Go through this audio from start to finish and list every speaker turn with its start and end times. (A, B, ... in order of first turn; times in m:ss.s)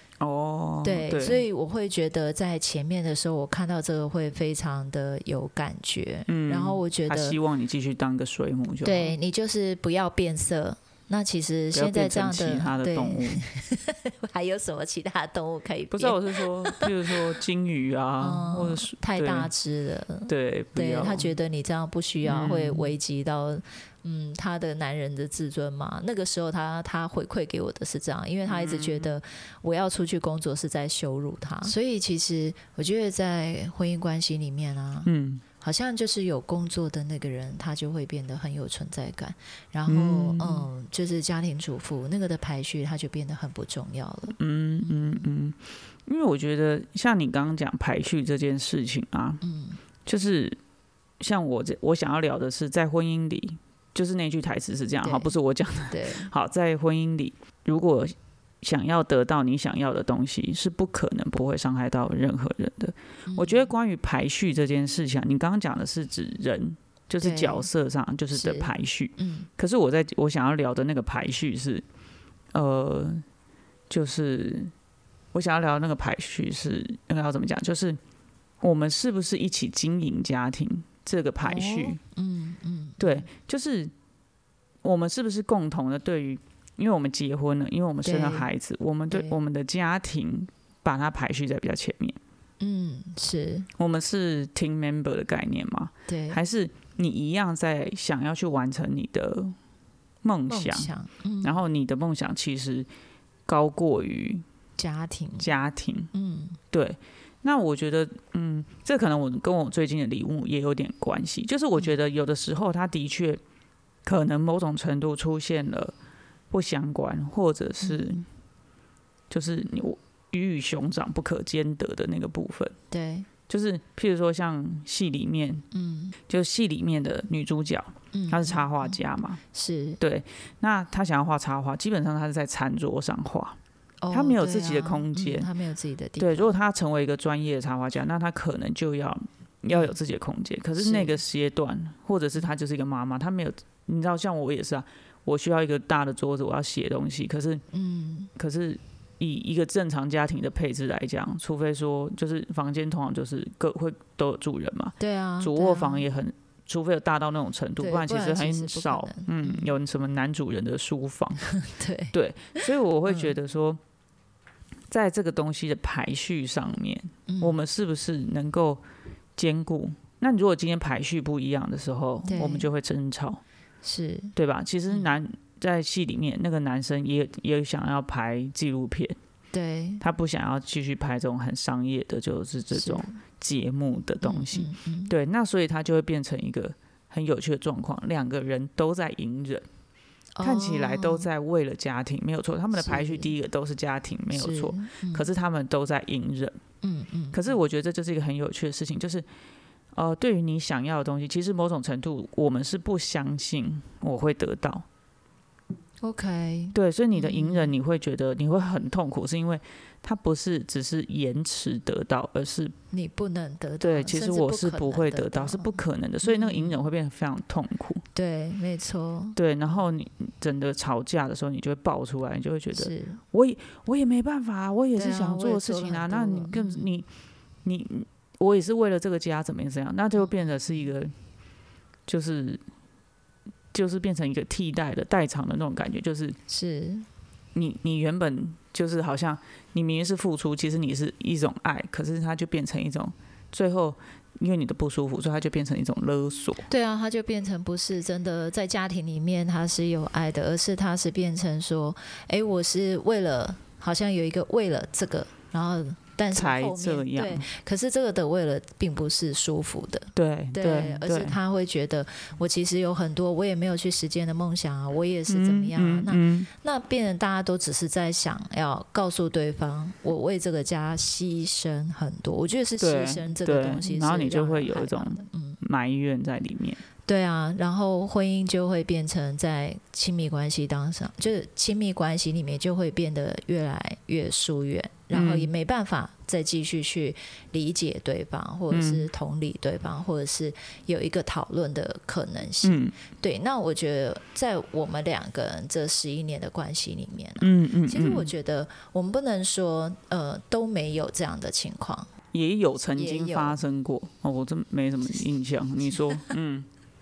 0:00.2-0:01.4 A
0:00.8-0:07.4 B
0:06.3-0:09.2 A
0:08.8-0:17.2 B
0:11.7-0:13.4 A
0:15.9-0:19.5 A
0:18.2-0:45.3 B
0:20.3-0:21.3 A
0:22.2-0:22.9 A
0:28.5-0:29.2 A
0:35.0-0:35.4 A
0:39.9-0:40.7 A
0:44.4-0:49.4 A
0:49.4-0:49.8 B
0:50.1-0:50.6 A
0:51.2-1:11.8 A
0:55.0-0:55.3 B
0:55.9-0:56.3 B
1:03.3-1:03.7 B
1:07.2-1:07.7 B
1:08.3-1:09.5 B
1:12.5-1:13.2 A
1:13.9-1:14.7 A
1:15.3-1:18.0 A
1:18.6-1:22.0 A
1:21.4-1:23.3 B
1:23.0-1:23.9 A
1:24.8-1:32.2 A
1:28.0-1:28.5 B
1:29.1-1:29.4 B
1:32.6-1:33.7 B
1:33.8-1:39.6 A
1:36.1-1:36.4 B
1:40.2-1:40.9 A
1:40.5-1:41.6 B
1:41.4-1:42.9 A
1:43.5-1:44.4 A
1:44.8-1:45.5 B
1:45.4-1:46.1 A
1:46.1-1:46.6 B
1:46.7-1:53.4 A
1:54.0-1:55.9 A
1:56.5-1:58.2 A
1:57.8-1:58.2 B
1:59.3-2:02.8 A
2:02.9-2:03.3 B
2:03.5-2:05.7 A
2:05.7-2:06.2 B
2:06.3-2:09.4 A
2:08.1-2:08.9 B
2:09.5-2:10.0 B
2:10.0-2:13.6 A
2:14.0-2:16.5 B
2:14.1-2:15.5 A
2:16.2-2:27.6 A
2:20.8-2:21.2 B
2:27.7-2:28.3 B
2:28.4-2:41.4 A
2:35.0-2:36.1 B
2:37.8-2:39.7 B
2:41.5-2:43.3 B
2:42.1-2:43.8 A
2:44.9-2:48.8 A
2:47.3-2:47.6 B
2:49.4-2:53.4 A
2:52.2-2:52.7 B
2:53.8-2:54.3 B
2:54.4-2:59.2 A
2:59.5-3:00.0 B
3:00.0-3:09.6 A
3:02.7-3:03.2 B
3:04.2-3:05.1 B
3:10.4-3:11.3 B
3:10.4-3:16.6 A
3:12.8-3:13.3 B
3:14.3-3:15.3 B
3:16.8-3:17.6 B
3:17.3-3:19.2 A
3:19.9-3:24.8 A
3:26.0-3:27.7 B
3:26.7-3:32.8 A
3:32.9-3:36.8 B
3:33.8-3:38.0 A
3:38.1-3:39.4 B
3:39.4-3:47.1 A
3:42.7-3:43.2 B
3:45.0-3:46.9 B
3:47.6-3:51.1 A
3:50.2-3:50.8 B
3:52.1-3:52.6 A
3:53.7-3:56.4 A
3:56.5-3:57.1 B
3:57.6-4:06.6 A
4:06.7-4:35.6 B
4:16.3-4:17.5 A
4:20.1-4:21.4 A
4:25.3-4:26.5 A
4:32.8-4:36.8 A
4:37.1-5:02.1 B
4:45.1-4:45.5 A
4:48.7-4:49.1 A
4:52.6-4:53.0 A
4:57.4-4:58.3 A
5:02.3-5:06.7 A
5:03.0-5:03.6 B